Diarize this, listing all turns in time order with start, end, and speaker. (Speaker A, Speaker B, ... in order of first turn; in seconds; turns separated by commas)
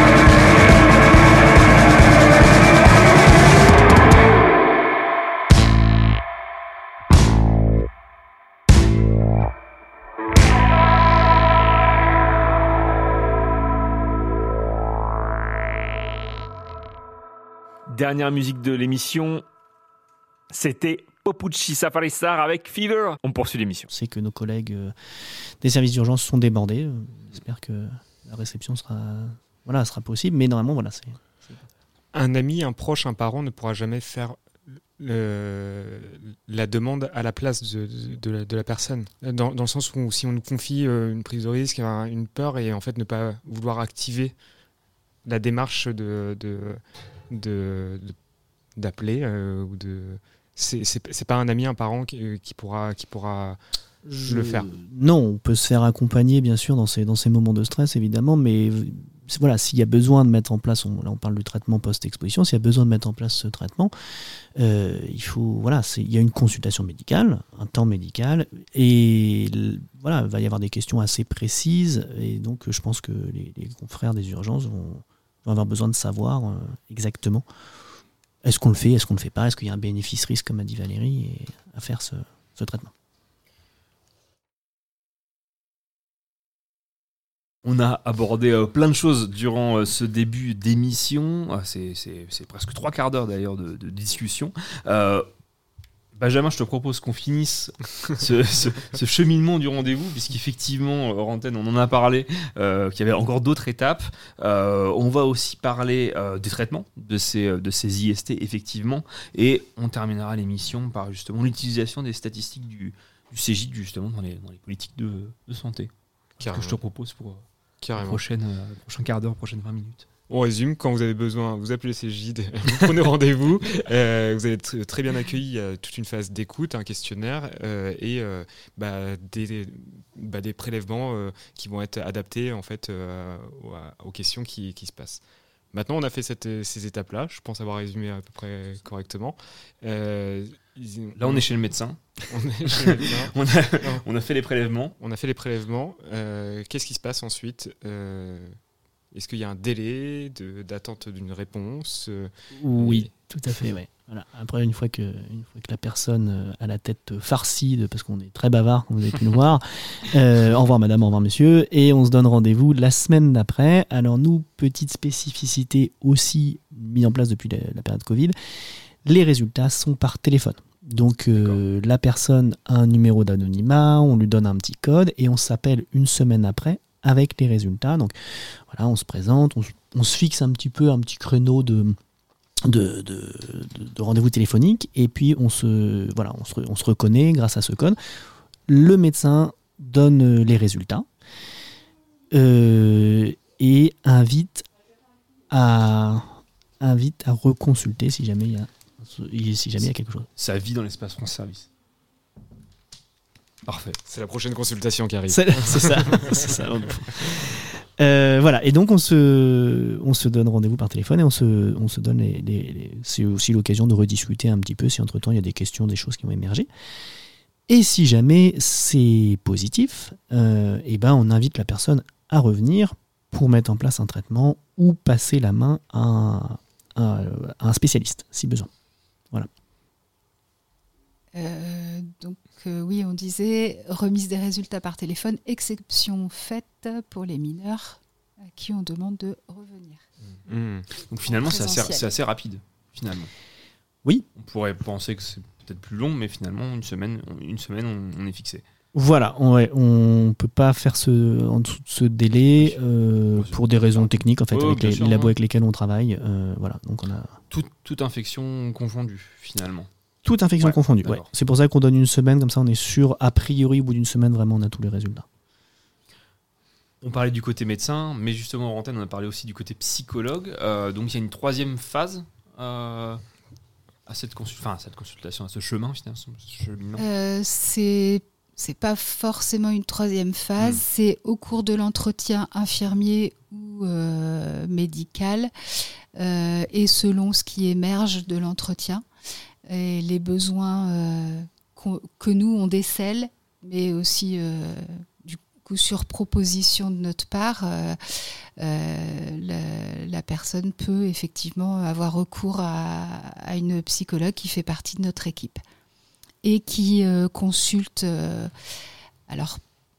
Speaker A: 17.9-19.4, Speaker A: 20.5-23.9, Speaker B: 23.9-31.6, Speaker C: 32.1-34.4, Speaker C: 35.0-44.3, Speaker C: 45.2-46.8, Speaker C: 47.3-48.1, Speaker C: 48.8-53.6, Speaker B: 54.0-63.9, Speaker C: 54.2-54.7, Speaker B: 64.5-77.5, Speaker B: 78.4-82.9, Speaker D: 87.6-95.3, Speaker D: 96.1-120.0, Speaker C: 116.4-116.8, Speaker C: 117.8-118.2, Speaker C: 120.3-141.4, Speaker D: 141.2-142.0, Speaker C: 142.3-144.0, Speaker D: 142.7-144.9, Speaker C: 145.0-148.6, Speaker C: 149.1-153.1, Speaker B: 152.6-168.3, Speaker B: 169.0-182.0, Speaker B: 182.6-188.0, Speaker B: 188.7-191.1, Speaker B: 192.3-194.7, Speaker B: 195.5-200.3, Speaker D: 200.4-201.7, Speaker D: 203.7-204.0, Speaker C: 204.1-206.5, Speaker B: 205.3-216.7, Speaker B: 217.7-228.7, Speaker E: 231.3-240.0, Speaker C: 240.5-240.9, Speaker D: 241.0-243.3, Speaker E: 241.2-242.1, Speaker D: 244.3-248.6, Speaker B: 248.9-257.4, Speaker D: 252.5-252.8, Speaker D: 253.3-255.3, Speaker D: 257.5-259.9, Speaker B: 260.2-265.2, Speaker D: 260.6-261.3, Speaker D: 267.0-273.2, Speaker D: 274.1-277.0, Speaker E: 277.0-285.5, Speaker E: 286.1-289.0, Speaker E: 289.7-305.6, Speaker E: 306.4-308.5, Speaker E: 309.3-309.6